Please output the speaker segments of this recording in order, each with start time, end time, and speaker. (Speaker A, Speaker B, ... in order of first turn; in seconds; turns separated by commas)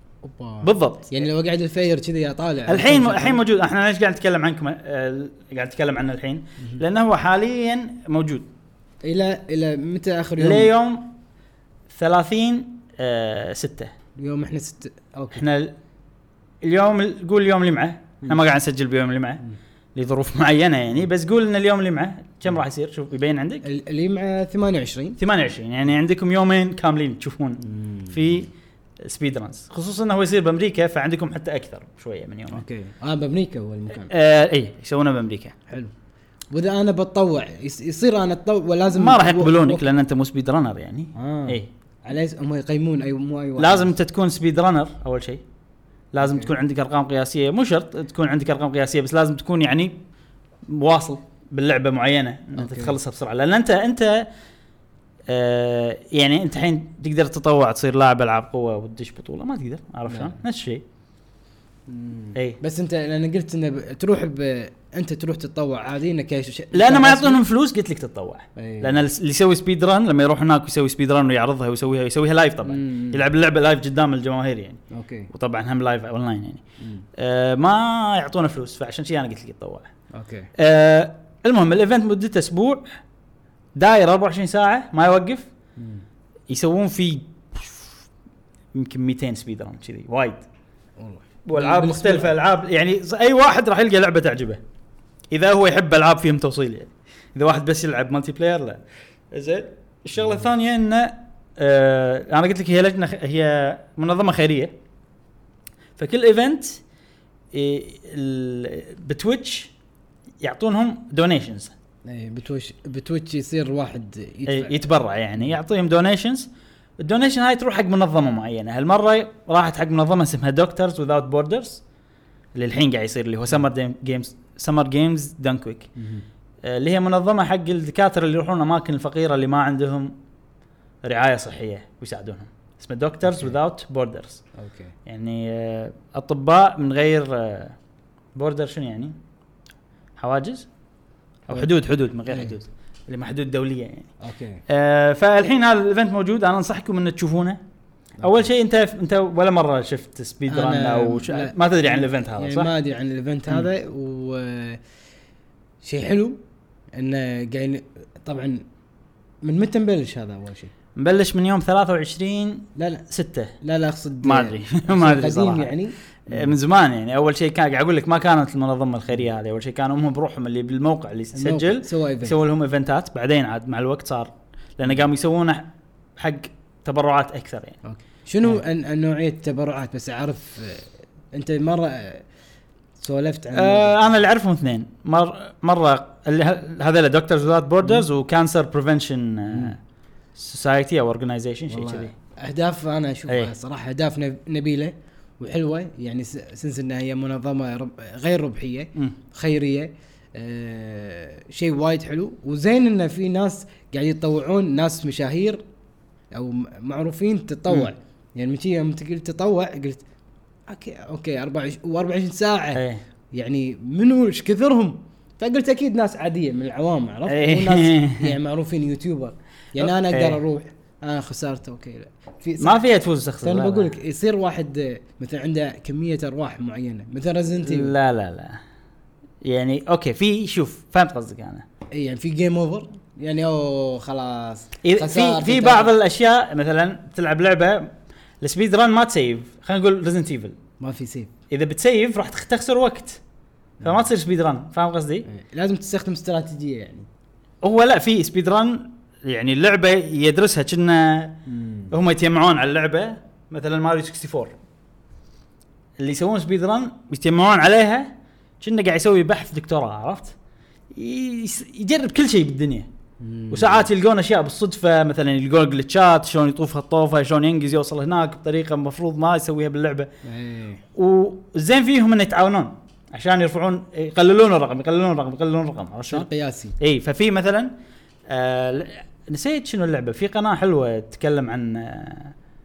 Speaker A: 0.2-3.4, Speaker B: 0.6-1.1, Speaker B: 2.7-8.5, Speaker A: 9.0-10.7, Speaker B: 10.4-11.1, Speaker B: 11.9-13.9, Speaker A: 14.2-15.4, Speaker B: 15.3-15.7, Speaker B: 16.6-19.4, Speaker B: 19.9-23.6, Speaker A: 23.6-25.2, Speaker B: 25.2-28.5, Speaker A: 27.6-28.4, Speaker B: 29.0-32.6, Speaker A: 32.5-34.1, Speaker B: 33.9-35.5, Speaker A: 36.5-39.8, Speaker B: 38.9-41.7, Speaker A: 41.1-43.9, Speaker B: 43.6-45.4, Speaker B: 46.1-50.0, Speaker A: 46.2-46.5, Speaker B: 50.7-54.2, Speaker A: 52.5-52.9, Speaker B: 55.3-60.8, Speaker A: 60.1-60.4, Speaker A: 61.9-67.4, Speaker B: 62.3-62.6, Speaker B: 66.7-76.6, Speaker A: 68.5-69.0, Speaker A: 72.6-73.2, Speaker A: 74.9-75.3, Speaker A: 76.8-77.0, Speaker B: 77.2-79.9, Speaker A: 80.1-80.5, Speaker B: 80.5-82.8, Speaker B: 83.8-85.5, Speaker A: 85.8-86.0, Speaker B: 86.5-87.9, Speaker B: 88.7-90.4, Speaker A: 91.0-92.3, Speaker B: 91.5-94.6, Speaker B: 95.3-98.8, Speaker B: 99.3-104.7, Speaker B: 106.0-106.8, Speaker B: 107.5-109.7, Speaker B: 110.4-111.7, Speaker A: 112.0-114.8, Speaker B: 114.5-121.8, Speaker B: 122.5-125.9, Speaker A: 126.0-126.2, Speaker B: 126.6-130.1, Speaker B: 131.0-134.4, Speaker A: 133.2-133.5, Speaker A: 134.6-134.9, Speaker B: 135.1-137.8, Speaker B: 138.3-139.2, Speaker B: 140.2-140.7, Speaker B: 141.5-144.1, Speaker A: 142.3-142.5, Speaker A: 144.2-144.6, Speaker B: 144.7-147.6, Speaker B: 148.2-152.7, Speaker A: 150.5-154.8, Speaker A: 155.8-156.4, Speaker A: 156.9-158.6, Speaker A: 159.4-160.7, Speaker B: 160.9-163.6, Speaker A: 162.8-163.1, Speaker A: 163.6-166.5, Speaker B: 164.2-165.8, Speaker B: 166.3-177.8, Speaker A: 171.3-172.3, Speaker A: 177.8-182.2, Speaker A: 183.0-183.9, Speaker B: 183.5-189.8, Speaker A: 189.5-189.8, Speaker B: 190.3-192.1, Speaker A: 191.7-205.6, Speaker A: 206.3-210.0, Speaker A: 210.7-222.8, Speaker B: 212.7-213.0, Speaker B: 217.3-218.3, Speaker B: 219.8-220.4, Speaker B: 222.6-223.9, Speaker A: 223.4-227.9, Speaker B: 227.6-228.6, Speaker B: 229.4-231.6, Speaker A: 231.9-235.9, Speaker B: 234.8-240.6, Speaker A: 240.8-241.3, Speaker B: 241.5-243.2, Speaker A: 243.8-244.1, Speaker B: 243.8-245.3, Speaker A: 245.3-247.1, Speaker B: 247.6-254.5, Speaker A: 251.5-251.9, Speaker B: 256.0-260.3, Speaker B: 260.9-262.9, Speaker A: 263.2-263.9, Speaker B: 263.5-270.1, Speaker A: 270.2-270.8, Speaker B: 270.9-276.3, Speaker A: 276.1-276.8, Speaker B: 276.8-277.7, Speaker B: 278.3-282.3